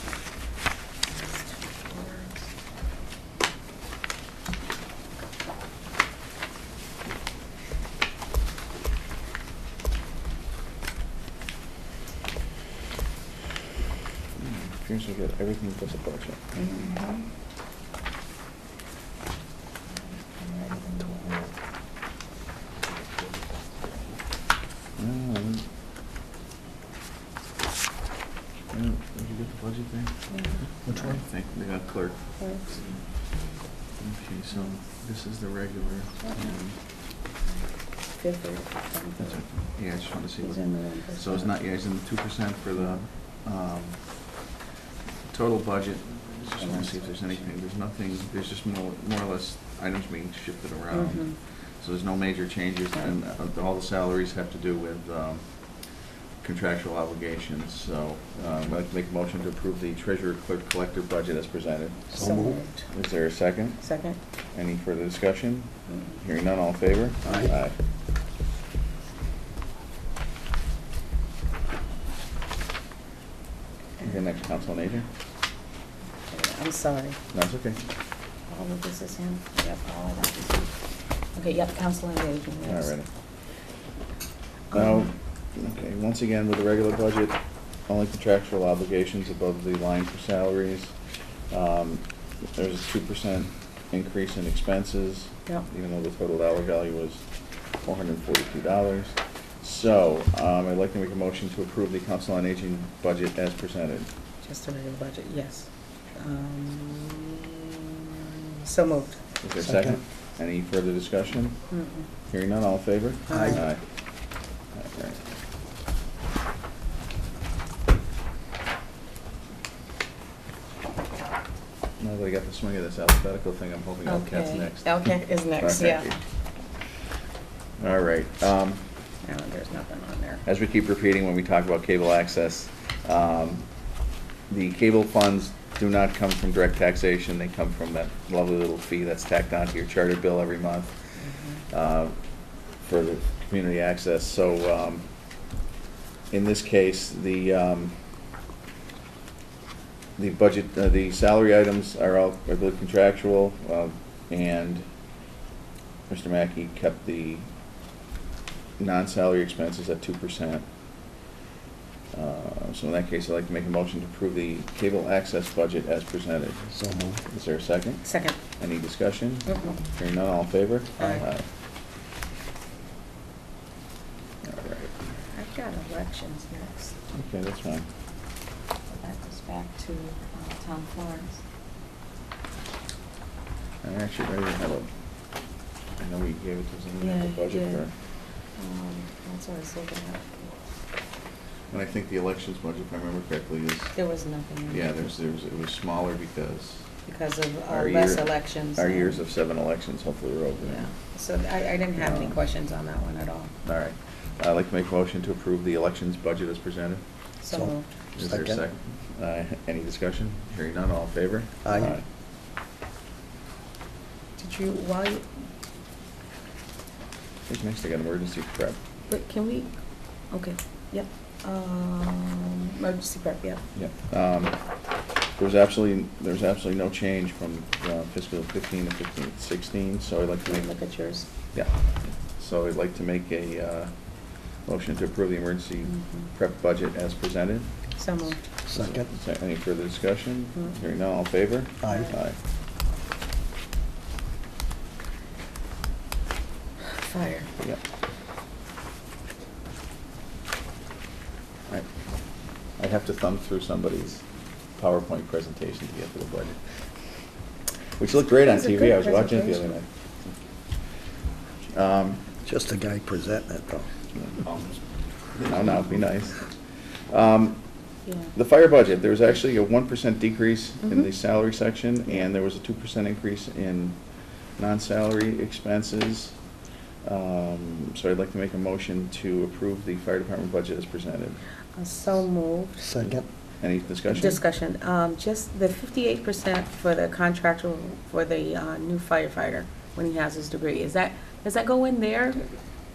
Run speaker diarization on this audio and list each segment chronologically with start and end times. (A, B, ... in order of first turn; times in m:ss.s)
0:01.8-0:02.3 A
0:14.4-0:16.5 B
0:16.6-0:17.2 A
0:20.5-0:21.1 A
0:25.0-0:25.6 B
0:28.7-0:33.0 B
0:34.0-0:36.8 B
0:38.1-0:39.4 A
0:39.2-0:44.4 B
0:40.5-0:41.2 A
0:45.3-0:55.5 B
0:56.4-1:02.3 B
1:02.1-1:02.6 C
1:02.1-1:02.9 A
1:02.9-1:03.8 B
1:03.8-1:04.2 A
1:04.5-1:07.7 B
1:07.2-1:07.5 C
1:14.0-1:15.1 B
1:16.3-1:17.2 A
1:17.3-1:17.8 B
1:18.5-1:20.7 A
1:21.3-1:22.9 A
1:22.6-1:23.1 B
1:24.7-1:30.9 B
1:24.7-1:25.0 A
1:31.5-1:44.1 B
1:44.4-1:49.2 A
1:49.4-1:51.6 B
1:49.6-1:50.0 C
1:51.7-1:52.0 A
1:52.3-1:53.8 B
1:53.3-1:53.6 C
1:53.3-1:53.6 A
1:54.7-1:55.2 B
2:02.0-2:05.0 B
2:04.1-2:06.1 A
2:05.6-2:06.2 B
2:07.8-2:08.8 B
2:09.2-2:10.4 A
2:10.4-2:13.7 B
2:14.5-2:21.2 B
2:21.2-2:21.6 A
2:21.7-2:22.2 B
2:22.8-2:25.0 B
2:26.3-2:27.9 B
2:30.2-2:34.8 B
2:36.1-2:37.4 B
2:38.8-2:40.6 B
2:42.1-2:46.7 B
2:46.7-2:47.2 C
2:47.2-2:48.1 B
2:48.0-2:48.4 A
2:48.6-2:51.4 B
2:54.4-2:54.9 B
2:55.3-2:56.9 A
2:57.1-2:57.9 B
2:58.9-3:01.4 A
3:03.8-3:04.9 B
3:06.0-3:07.9 B
3:07.0-3:07.9 A
3:08.5-3:10.5 A
3:11.7-3:14.0 B
3:14.0-3:15.0 A
3:14.7-3:16.9 B
3:17.0-3:19.2 A
3:17.7-3:20.9 B
3:20.7-3:23.5 A
3:22.0-3:22.4 B
3:23.6-3:27.0 B
3:27.4-3:27.8 A
3:27.5-3:28.6 C
3:28.2-3:32.0 B
3:31.6-3:32.0 C
3:34.4-3:35.3 A
3:37.5-3:38.8 B
3:39.1-3:39.7 A
3:40.3-3:43.6 A
3:43.7-3:44.6 B
3:45.4-3:50.7 B
3:50.5-3:51.2 A
3:52.4-3:53.9 B
3:54.6-3:57.7 B
3:58.0-3:58.4 A
3:58.7-3:59.1 C
3:58.7-4:02.4 B
4:01.8-4:02.2 C
4:06.8-4:07.5 A
4:12.8-4:14.2 B
4:14.8-4:16.6 B
4:18.0-4:19.9 B
4:18.4-4:19.7 A
4:21.7-4:22.2 B
4:22.4-4:23.9 C
4:24.1-4:24.8 B
4:25.3-4:26.5 B
4:27.1-4:27.6 B
4:28.1-4:34.0 B
4:34.6-4:36.3 B
4:37.0-4:41.4 B
4:41.7-4:42.8 A
4:42.8-4:43.2 C
4:43.6-4:44.4 B
4:44.1-4:52.5 A